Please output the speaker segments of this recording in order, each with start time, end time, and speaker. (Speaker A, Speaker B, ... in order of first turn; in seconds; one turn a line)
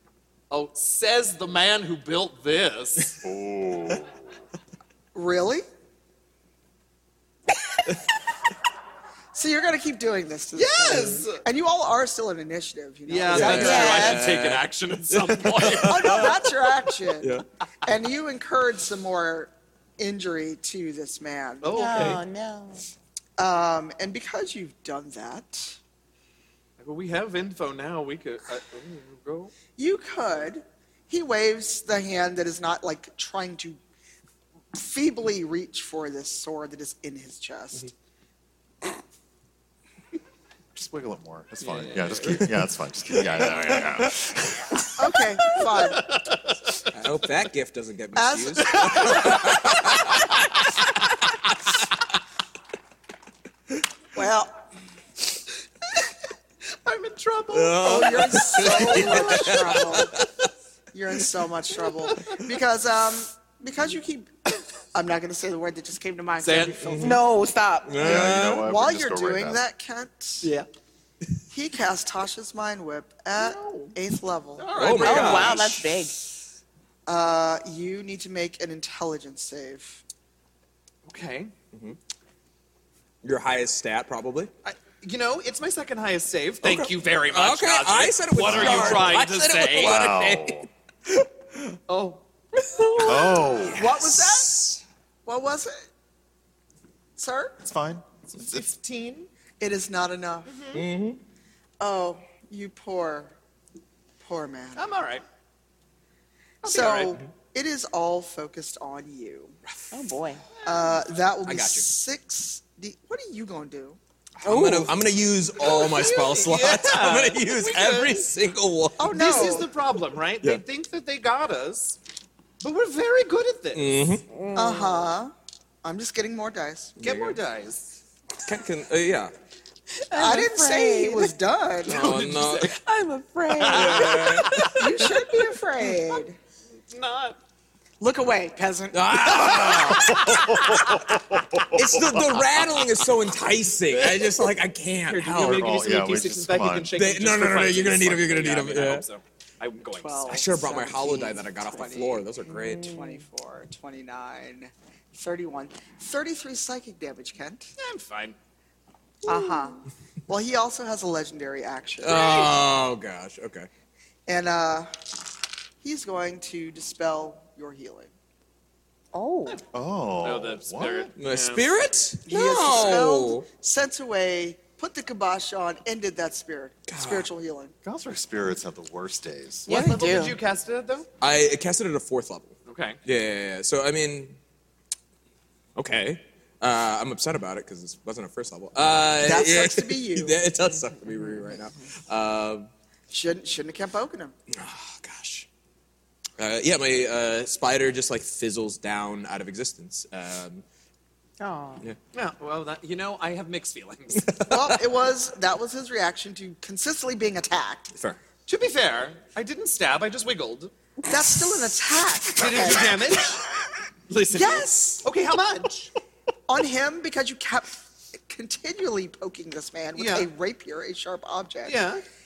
Speaker A: 0.5-3.2
Speaker B: 3.2-4.1
Speaker C: 5.1-5.7
Speaker C: 9.3-14.2
Speaker A: 10.5-11.4
Speaker A: 13.1-16.2
Speaker D: 13.3-16.5
Speaker E: 13.5-14.3
Speaker C: 15.7-21.7
Speaker D: 17.1-17.4
Speaker A: 21.6-22.2
Speaker E: 21.7-22.8
Speaker C: 23.4-25.8
Speaker A: 26.8-29.5
Speaker C: 29.7-33.8
Speaker C: 34.7-37.9
Speaker B: 40.7-44.8
Speaker A: 41.6-42.5
Speaker D: 42.2-42.5
Speaker C: 45.0-46.0
Speaker A: 45.6-46.6
Speaker D: 46.9-50.6
Speaker C: 48.1-49.5
Speaker D: 51.2-51.7
Speaker C: 54.1-54.6
Speaker A: 56.8-59.7
Speaker D: 57.5-60.5
Speaker C: 57.8-60.1
Speaker C: 60.9-67.2
Speaker D: 62.1-62.4
Speaker A: 66.4-67.0
Speaker D: 66.9-67.2
Speaker E: 67.0-68.2
Speaker D: 67.8-68.7
Speaker B: 68.0-69.6
Speaker C: 68.5-70.5
Speaker A: 70.4-70.7
Speaker C: 71.5-75.3
Speaker A: 73.3-74.0
Speaker A: 74.6-75.6
Speaker D: 74.7-75.8
Speaker E: 75.0-76.2
Speaker C: 77.0-80.0
Speaker A: 81.0-81.5
Speaker D: 83.2-84.5
Speaker A: 84.6-90.1
Speaker D: 86.6-91.3
Speaker B: 88.3-89.2
Speaker B: 89.8-90.7
Speaker A: 91.9-92.2
Speaker B: 93.0-93.9
Speaker C: 93.1-94.7
Speaker A: 93.2-93.4
Speaker D: 93.6-94.8
Speaker C: 95.2-95.9
Speaker C: 97.2-97.6
Speaker B: 97.6-98.7
Speaker A: 98.4-99.3
Speaker C: 99.6-100.7
Speaker A: 100.5-100.8
Speaker D: 100.7-101.2
Speaker C: 101.8-103.3
Speaker C: 104.2-104.9
Speaker A: 104.7-105.2
Speaker A: 106.6-107.2
Speaker C: 106.6-109.5
Speaker E: 109.9-110.4
Speaker A: 110.6-111.0
Speaker C: 110.6-114.0
Speaker D: 111.4-111.9
Speaker D: 114.4-119.5
Speaker E: 114.4-114.9
Speaker A: 115.6-118.4
Speaker C: 119.0-119.7
Speaker A: 119.0-122.0
Speaker A: 122.6-124.0
Speaker D: 123.7-124.3
Speaker E: 124.3-125.1
Speaker C: 124.5-125.3
Speaker C: 125.8-127.0
Speaker D: 127.0-127.4
Speaker A: 127.0-128.0
Speaker D: 128.4-129.3
Speaker E: 130.0-131.3
Speaker C: 130.1-132.1
Speaker D: 131.8-132.8
Speaker A: 131.8-132.8
Speaker E: 132.7-134.7
Speaker A: 133.6-137.4
Speaker D: 133.7-135.2
Speaker C: 134.7-136.4
Speaker C: 138.0-140.2
Speaker D: 138.9-140.8
Speaker A: 139.5-140.8
Speaker B: 140.0-142.5
Speaker D: 141.7-145.8
Speaker A: 143.9-144.4
Speaker A: 145.1-150.4
Speaker B: 145.4-146.9
Speaker D: 146.9-149.0
Speaker C: 150.0-152.3
Speaker D: 150.3-152.9
Speaker E: 152.5-153.2
Speaker C: 152.8-157.7
Speaker A: 157.8-158.4
Speaker E: 159.2-159.8
Speaker C: 159.3-162.3
Speaker A: 162.0-162.5
Speaker D: 162.0-163.7
Speaker C: 164.2-164.9
Speaker C: 165.8-168.1
Speaker E: 169.1-169.6
Speaker B: 169.7-171.1
Speaker A: 170.2-171.7
Speaker D: 171.2-173.5
Speaker C: 172.2-177.7
Speaker D: 176.9-177.3
Speaker B: 177.8-179.9
Speaker E: 179.7-180.4
Speaker A: 179.7-181.1
Speaker D: 181.2-184.4
Speaker A: 182.7-183.0
Speaker D: 185.7-192.7
Speaker C: 189.2-190.4
Speaker E: 191.0-191.9
Speaker C: 193.1-194.3
Speaker D: 194.5-195.5
Speaker D: 196.4-200.6
Speaker E: 201.4-201.8
Speaker A: 202.1-204.3
Speaker D: 204.1-204.8
Speaker C: 204.5-207.9
Speaker D: 207.9-208.2
Speaker A: 208.4-210.7
Speaker C: 211.0-213.2
Speaker A: 212.3-213.4
Speaker A: 214.1-215.9
Speaker C: 214.3-215.1
Speaker C: 216.5-221.8
Speaker A: 219.9-220.3
Speaker A: 221.6-222.0